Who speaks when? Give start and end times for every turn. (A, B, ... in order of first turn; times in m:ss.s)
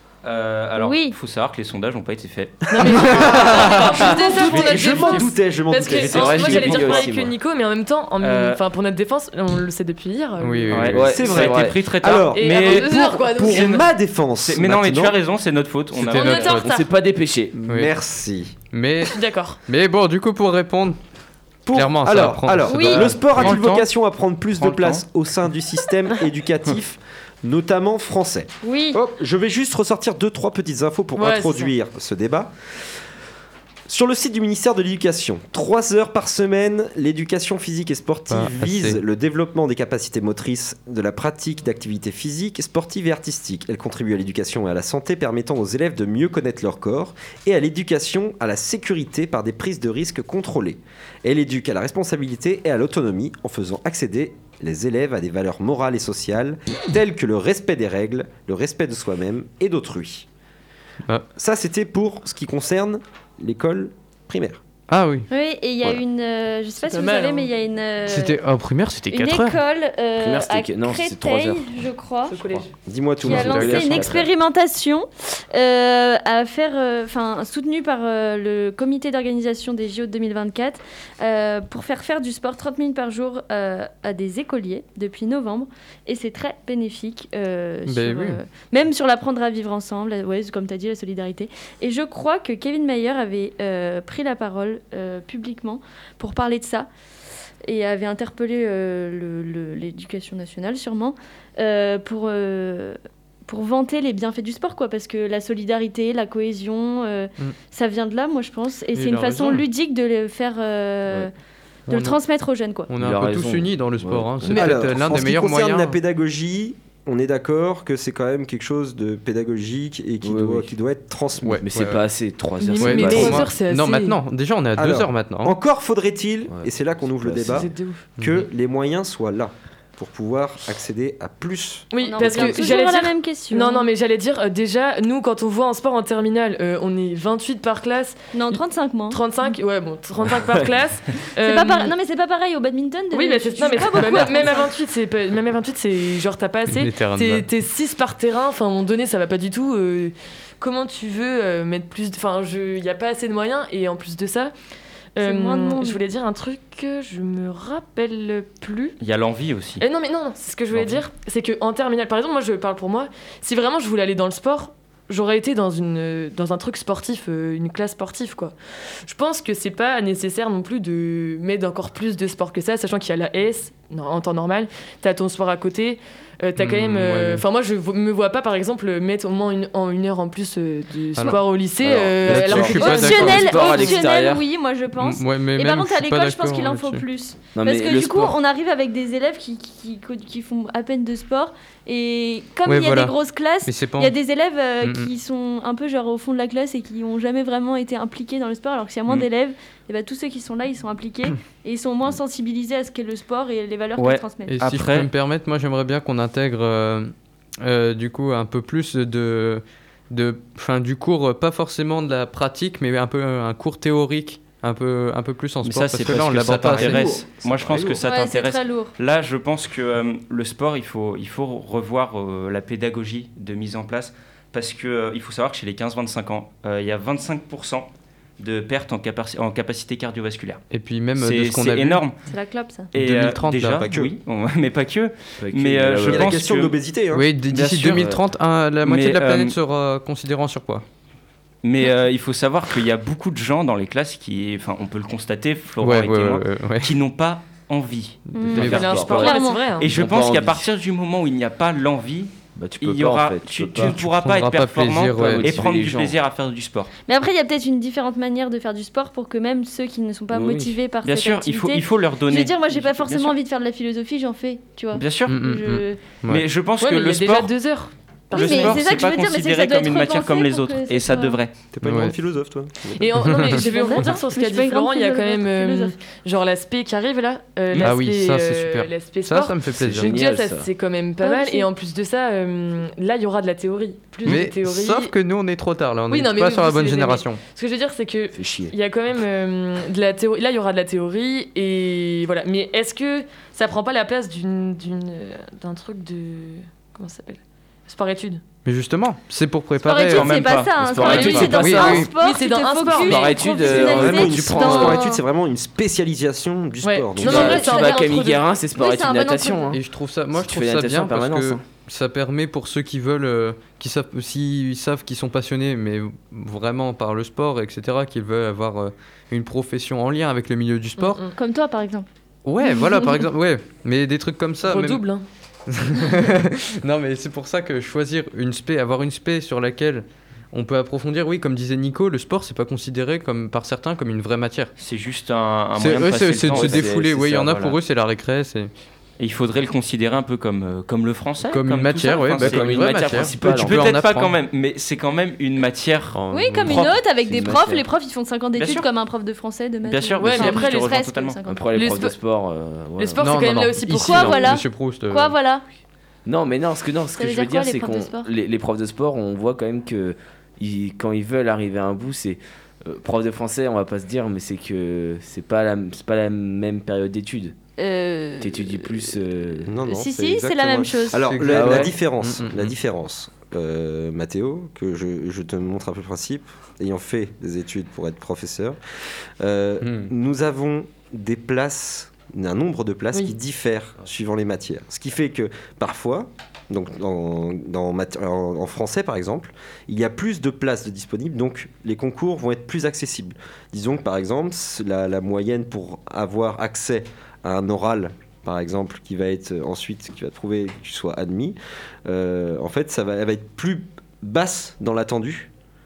0:00.2-0:07.1 A
0:00.8-0:01.2 B
0:02.7-0:10.9 C
0:02.8-0:06.8 D
0:03.6-0:04.2 E
0:05.9-0:07.3 E
0:08.2-0:08.6 A
0:10.4-0:11.0 F
0:10.7-0:16.6 A
0:10.9-0:11.9 E
0:11.0-0:15.2 D
0:12.3-0:13.9 C
0:15.9-0:16.7 F
0:16.1-0:16.9 C
0:16.5-0:17.6 E
0:17.6-0:18.6 D
0:17.7-0:18.0 F
0:18.7-0:21.0 F
0:19.1-0:19.6 C
0:21.7-0:32.5 D
0:21.7-0:23.3 F
0:22.7-0:23.1 B
0:23.2-0:23.9 A
0:24.6-0:25.0 A
0:28.6-0:29.0 B
0:31.2-0:31.7 C
0:33.9-1:00.3 D
0:38.3-0:39.0 F
1:01.4-1:04.6 D
1:04.9-1:05.3 F
1:05.3-1:08.4 B
1:06.8-1:07.5 C
1:08.1-1:09.6 F
1:09.1-1:12.4 B
1:10.2-1:11.8 E
1:12.3-1:12.7 C
1:12.9-1:14.2 D
1:13.2-1:14.3 E
1:13.2-1:36.9 B
1:27.9-1:28.4 F
1:37.6-1:51.3 B
1:49.0-1:49.6 F
1:51.9-1:52.2 F
1:51.9-1:52.9 B
1:52.9-1:56.0 F
1:53.0-1:54.8 E
1:54.6-2:01.6 D
2:00.2-2:00.7 E
2:01.4-2:02.0 F
2:01.6-2:03.5 E
2:02.6-2:04.2 C
2:02.8-2:05.6 F
2:04.8-2:12.6 D
2:07.2-2:07.7 E
2:07.5-2:08.1 C
2:08.2-2:08.4 F
2:11.9-2:18.6 C
2:12.0-2:13.9 B
2:18.3-2:19.2 B
2:19.1-2:21.9 C
2:20.4-2:20.6 E
2:21.4-2:24.7 B
2:23.1-2:34.5 C
2:26.7-2:27.5 F
2:35.2-2:39.0 C
2:35.2-2:36.0 B
2:39.0-2:39.8 A
2:39.8-3:03.2 C
2:56.6-2:57.4 F
3:01.2-3:01.4 F
3:01.8-3:04.4 E
3:02.3-3:04.0 F
3:02.7-3:24.6 B
3:05.0-3:07.0 F
3:07.6-3:08.4 E
3:12.7-3:14.1 F
3:14.8-3:15.1 F
3:24.0-3:25.1 A
3:24.5-3:37.1 F
3:35.6-3:50.6 A
3:36.4-3:38.0 E
3:36.9-3:38.0 D
3:38.0-3:38.9 B
3:50.7-3:52.0 F
3:51.2-3:52.2 A
3:52.3-3:52.9 B
3:52.9-3:56.8 A
3:52.9-3:53.9 F
3:53.8-3:54.2 D
3:55.4-3:56.4 E
3:56.0-3:57.3 D
3:57.1-4:00.8 F
3:57.5-3:58.2 A
3:57.9-3:58.2 E
3:58.8-3:59.6 A
4:01.6-4:16.9 A
4:05.8-4:07.0 F
4:08.4-4:09.6 B
4:08.4-4:08.9 F
4:08.6-4:09.9 C
4:08.6-4:10.6 E
4:12.6-4:14.0 E
4:13.8-4:15.5 F
4:15.2-4:16.2 E
4:17.1-4:26.0 B
4:20.3-4:20.8 E
4:21.0-4:23.4 A
4:25.0-4:25.4 A
4:25.3-4:26.5 F
4:26.3-4:27.6 A
4:26.8-4:28.9 C
4:28.3-4:31.4 B
4:28.3-4:31.5 A
4:31.7-4:33.1 D
4:31.8-4:32.2 F
4:33.0-4:45.1 C
4:33.2-4:33.6 F
4:33.4-4:35.9 B
4:37.8-4:40.1 F
4:39.7-4:40.7 E
4:41.2-4:41.7 B
4:44.2-4:47.4 F
4:46.1-4:58.4 C
4:48.3-4:48.7 E
4:58.6-5:00.5 F
4:59.8-5:05.2 B
5:00.1-5:01.6 A
5:00.8-5:02.0 E
5:01.0-5:03.5 C
5:01.5-5:02.1 F
5:03.0-5:05.1 E
5:03.6-5:07.6 D
5:06.8-5:08.4 C
5:07.2-5:09.8 E
5:07.2-5:09.8 B
5:09.7-5:21.2 F
5:10.4-5:11.6 E
5:21.0-5:22.1 B
5:22.4-5:25.0 F
5:22.7-5:23.1 B
5:24.6-5:25.2 C
5:25.7-5:34.7 F
5:34.8-5:36.9 A
5:35.8-5:38.7 F
5:36.5-5:37.8 E
5:39.2-5:42.7 A
5:41.5-5:44.4 F
5:42.4-5:44.0 E
5:43.4-5:46.2 A
5:46.1-5:47.8 E
5:46.3-5:51.6 B
5:46.5-5:46.9 F
5:48.6-5:48.9 A
5:49.8-5:51.4 A
5:50.2-5:51.0 C
5:51.5-5:53.3 E
5:51.7-5:52.1 C
5:53.0-5:54.4 C
5:53.2-5:55.3 F
5:53.9-5:54.4 E
5:54.0-5:55.6 B
5:56.2-6:07.6 E
5:57.2-5:58.3 B
6:07.8-6:09.1 B
6:08.4-6:09.8 E
6:09.6-6:18.8 D
6:09.9-6:11.2 B
6:11.2-6:12.7 F
6:11.5-6:12.0 E
6:19.4-6:45.5 D
6:19.8-6:20.1 F